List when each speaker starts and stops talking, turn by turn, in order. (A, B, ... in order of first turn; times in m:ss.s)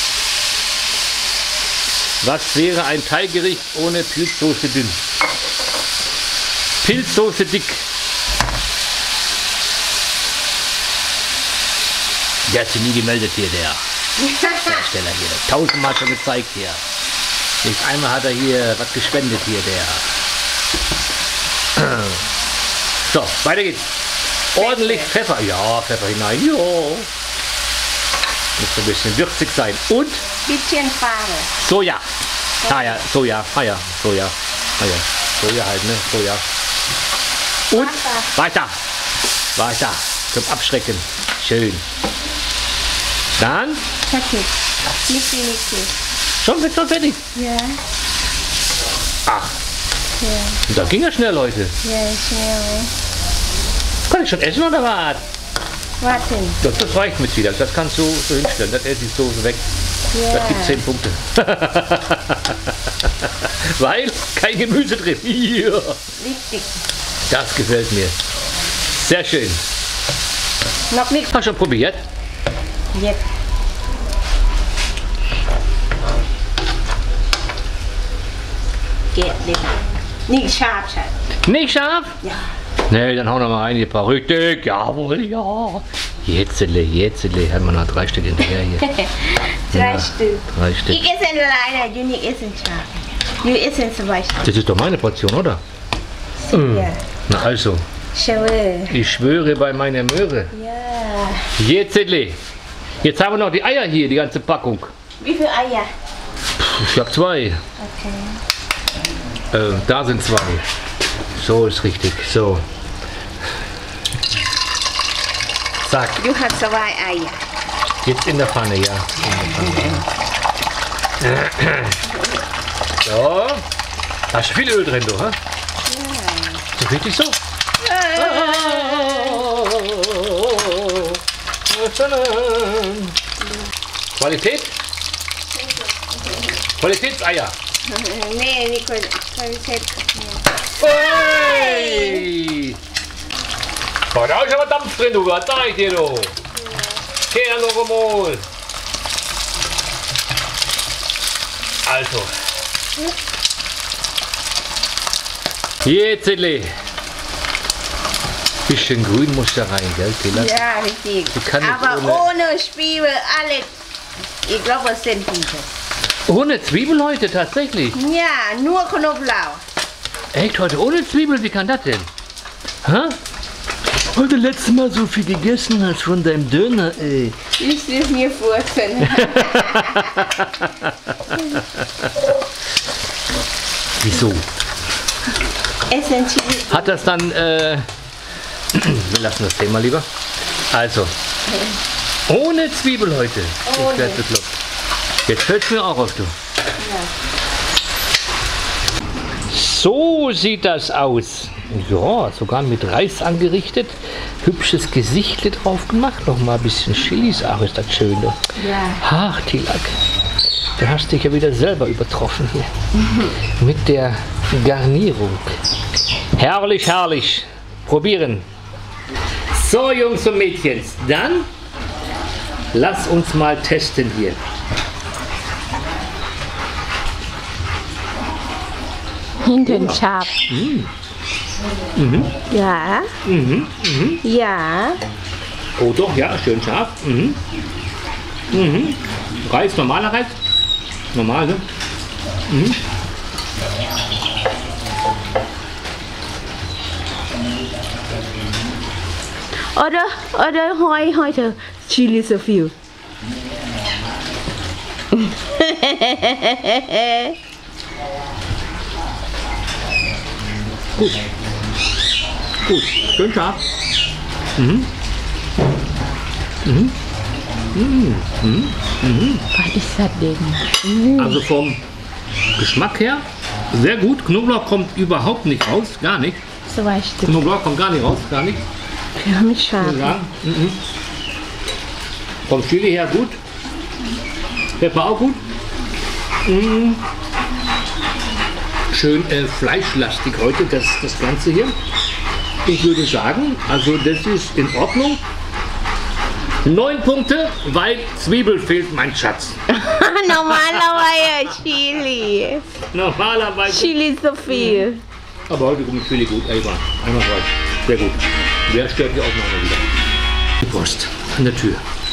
0:02.2-0:05.0 A
0:06.8-0:07.8 A
0:12.5-0:13.8 A
0:14.3-0:14.7 B
0:14.6-0:16.8 A
0:17.6-0:20.1 A
0:21.8-0:22.2 A
0:23.0-0:23.9 A
0:24.5-0:27.1 A
0:24.6-0:25.1 B
0:28.6-0:30.2 A
0:30.4-0:31.5 B
0:31.6-0:32.0 A
0:32.6-0:33.0 B
0:32.6-0:36.4 A
0:37.7-0:38.7 A
0:37.7-0:38.3 B
0:39.6-0:41.8 A
0:43.4-0:43.8 A
0:44.0-0:44.5 B
0:45.1-0:45.9 B
0:46.4-0:47.2 A
0:47.3-0:47.8 B
0:49.3-0:49.5 A
0:50.2-0:50.6 B
0:50.7-0:51.7 A
0:51.8-0:52.9 B
0:54.1-0:55.2 A
0:56.0-0:56.6 B
0:56.6-0:59.6 A
1:00.1-1:00.8 B
1:00.3-1:06.0 A
1:06.2-1:06.8 B
1:07.3-1:08.1 A
1:08.9-1:09.6 A
1:10.9-1:11.3 B
1:11.3-1:12.0 A
1:12.9-1:13.2 B
1:19.1-1:21.1 B
1:21.4-1:22.2 A
1:22.9-1:29.0 A
1:28.8-1:32.9 B
1:29.7-1:31.0 A
1:33.4-1:34.4 B
1:34.4-1:35.6 A
1:36.4-1:37.0 B
1:36.5-1:37.8 A
1:38.1-1:38.9 B
1:38.9-1:40.5 A
1:40.5-1:41.5 B
1:41.6-1:42.4 A
1:43.0-1:44.9 A
1:45.2-1:45.9 B
1:46.6-1:47.6 A
1:47.8-1:48.4 B
1:49.5-1:50.6 A
1:51.3-1:52.6 A
1:55.8-1:56.2 A
1:56.2-1:57.4 B
1:58.0-2:00.1 A
2:01.2-2:02.0 A
2:03.0-2:03.6 A
2:04.3-2:05.4 A
2:05.9-2:06.6 B
2:06.8-2:07.4 A
2:07.8-2:09.4 B
2:08.2-2:13.2 A
2:14.2-2:14.7 A
2:15.6-2:16.5 B
2:16.8-2:17.5 A
2:17.8-2:22.3 B
2:20.8-2:22.8 A
2:24.1-2:26.3 A
2:26.6-2:27.0 B
2:27.3-2:28.4 A
2:31.8-2:32.3 A
2:35.8-2:36.7 A
2:38.7-2:40.6 A
2:40.3-2:43.7 B
2:41.3-2:42.3 A
2:44.4-2:45.7 B
2:46.3-2:48.0 A
2:47.9-2:49.6 B
2:50.3-2:52.1 A
2:52.8-2:53.2 A
2:54.1-2:57.4 A
2:57.6-3:00.2 B
2:59.1-3:02.1 A
3:04.0-3:04.4 A
3:05.9-3:07.0 B
3:06.7-3:07.8 A
3:08.7-3:10.0 A
3:10.7-3:11.1 A
3:12.3-3:14.5 A
3:13.6-3:14.2 B
3:15.3-3:16.3 A
3:16.8-3:17.1 B
3:19.5-3:30.0 A
3:28.6-3:29.0 B
3:30.8-3:32.7 A
3:33.6-3:35.6 A
3:36.4-3:38.4 A
3:39.5-3:41.5 A
3:42.7-3:44.4 A
3:49.4-3:50.4 B
3:49.7-3:50.9 A
3:52.0-3:52.3 A
3:52.5-3:53.1 B
3:53.2-3:54.2 A
3:54.2-3:55.0 B
3:55.8-3:57.4 A
3:58.5-4:00.3 A
4:01.1-4:01.6 A
4:02.5-4:02.8 A
4:09.7-4:12.7 B
4:15.2-4:17.4 B
4:22.6-4:23.6 A
4:24.6-4:24.9 A
4:26.6-4:27.0 A
4:27.7-4:29.5 A
4:29.5-4:31.4 B
4:31.2-4:31.8 A
4:32.6-4:36.4 A
4:36.7-4:37.4 B
4:37.3-4:38.6 A
4:39.2-4:40.2 B
4:39.8-4:40.8 A
4:42.5-4:43.4 A
4:44.8-4:45.4 A
4:46.4-4:47.0 A
4:48.9-4:51.7 A
4:52.6-4:55.2 A
4:56.6-4:59.6 A
4:59.7-5:02.6 B
5:00.4-5:01.2 A
5:02.9-5:04.0 A
5:03.6-5:05.0 B
5:04.5-5:04.8 A
5:05.5-5:09.9 A
5:10.6-5:11.8 A